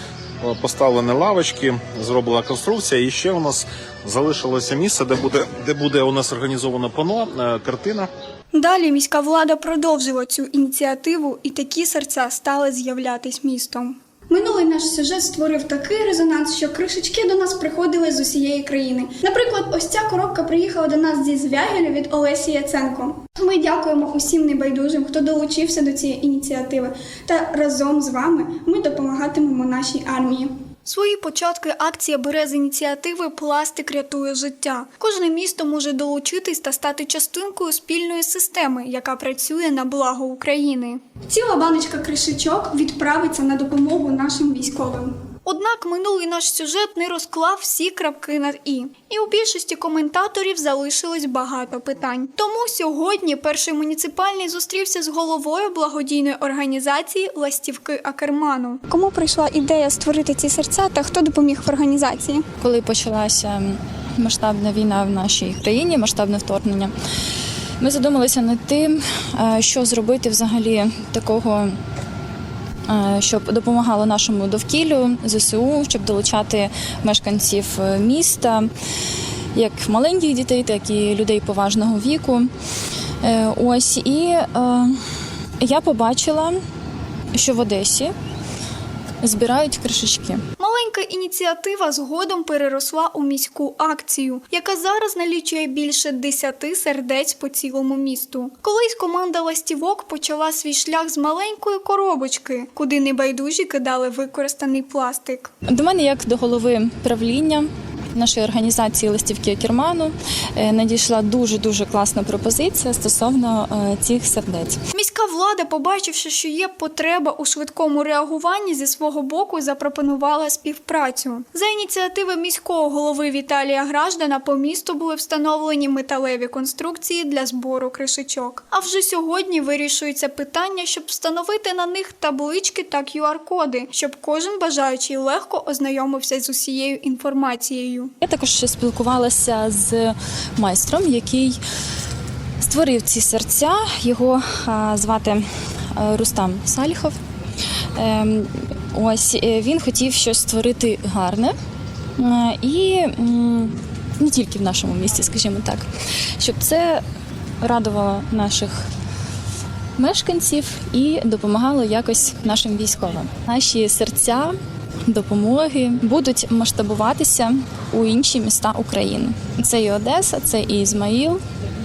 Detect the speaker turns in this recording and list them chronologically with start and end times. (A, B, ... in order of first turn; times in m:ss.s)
0:00.4-0:08.1 A
0:08.5-1:02.4 B
1:02.6-1:06.9 C
1:07.8-1:11.7 C
1:12.9-1:18.7 C
1:19.5-1:22.5 C
1:23.2-1:25.0 C
1:25.6-1:26.6 C
1:27.3-1:28.1 C
1:29.2-1:30.4 C
1:30.6-1:45.5 B
1:45.7-1:54.8 C
1:54.9-2:18.1 B
2:18.2-2:21.6 C
2:22.6-2:27.2 C
2:28.0-2:31.5 C
2:32.2-2:37.0 C
2:37.6-2:38.9 C
2:40.0-2:44.5 C
2:45.1-2:51.4 C